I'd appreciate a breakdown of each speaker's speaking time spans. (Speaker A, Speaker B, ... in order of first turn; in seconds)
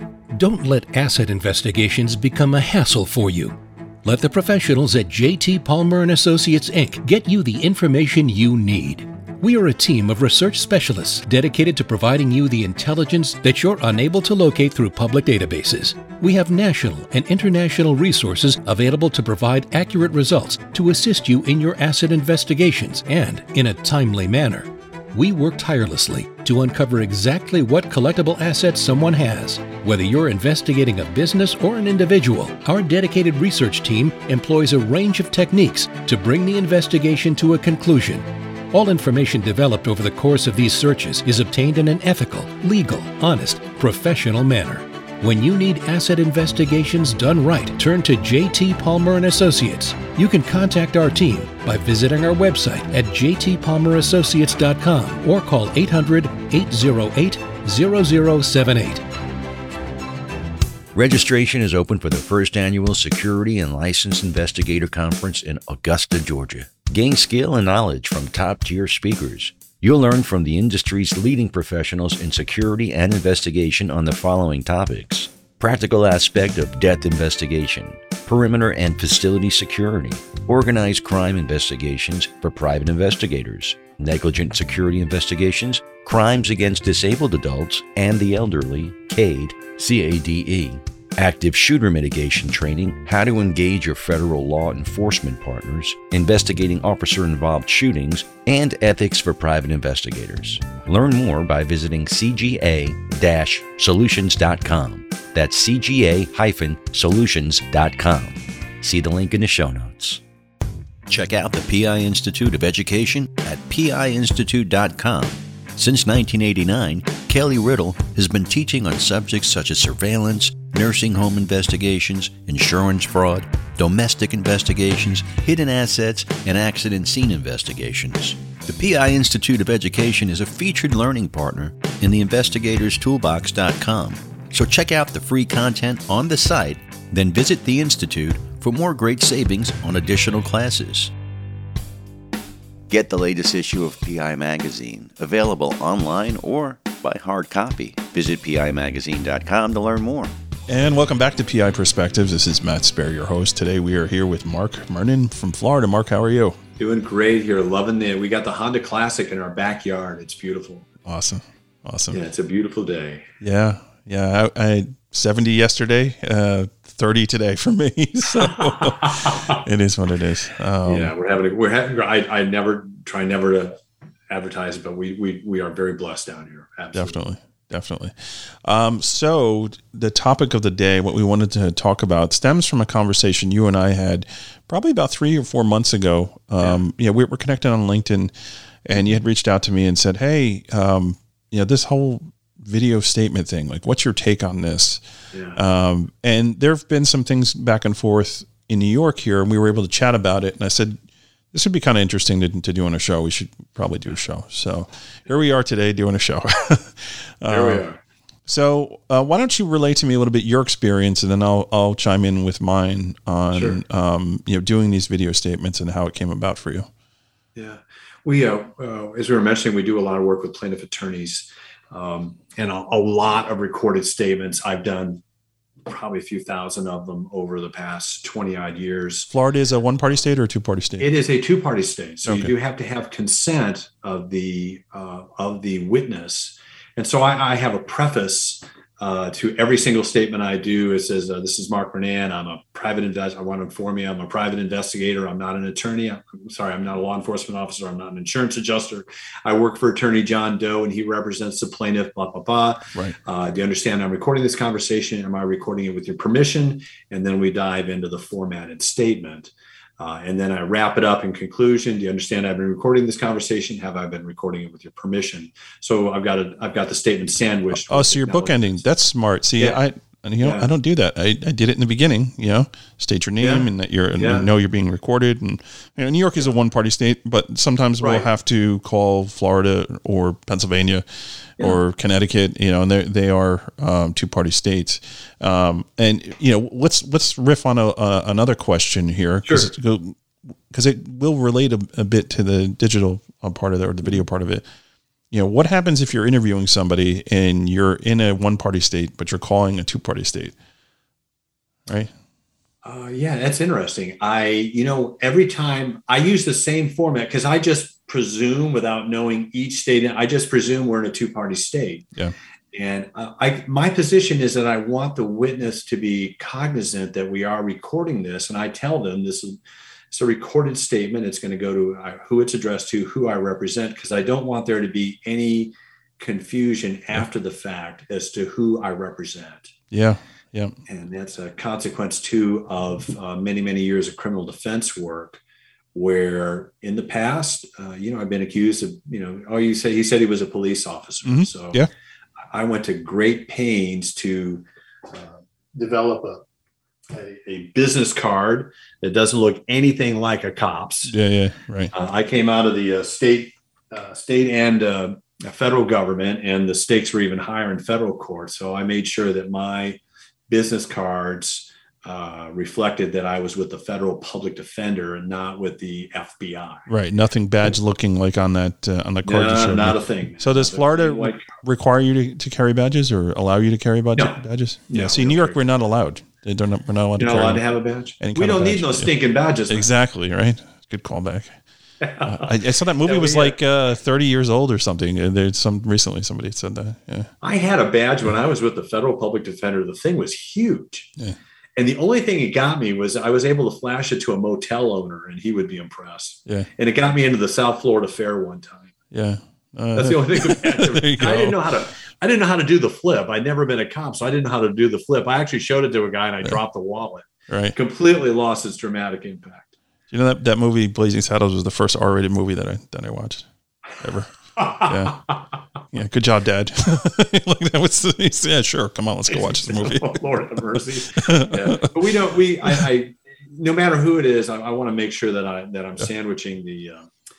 Speaker A: 0.3-59.0
Speaker B: 61.0-110.2, 111.1-141.1, 142.9-150.3
Speaker C: 150.7-156.6, 161.1-162.2, 163.4-171.1, 176.9-188.3, 188.9-195.0, 195.6-201.0, 201.5-207.8, 208.5-216.9, 229.3-231.1, 232.3-232.5, 267.8-290.2, 290.7-294.6, 295.3-300.5, 329.9-330.8, 341.2-341.9, 351.1-351.9, 366.9-377.6, 378.2-379.1, 379.7-381.6, 382.2-387.3, 399.1-401.6, 407.5-407.8, 410.1-415.2, 415.9-420.3, 421.2-421.9
Speaker D: 156.8-160.9, 162.1-163.3, 168.4-169.6, 170.8-173.8, 174.3-177.2, 195.3-195.6, 207.5-208.0, 213.5-213.8, 217.6-225.2, 225.8-229.3, 231.0-268.8, 270.4-270.7, 273.4-274.5, 278.0-278.3, 289.4-289.7, 302.8-312.1, 312.7-319.6, 320.1-329.7, 330.9-335.4, 335.9-341.8, 342.5-346.4, 347.1-351.2, 351.9-366.9, 369.2-371.4, 374.9-375.6, 377.2-379.9, 382.0-383.6, 387.4-391.1, 391.8-398.9, 400.0-409.7, 414.6-415.2, 419.3-427.1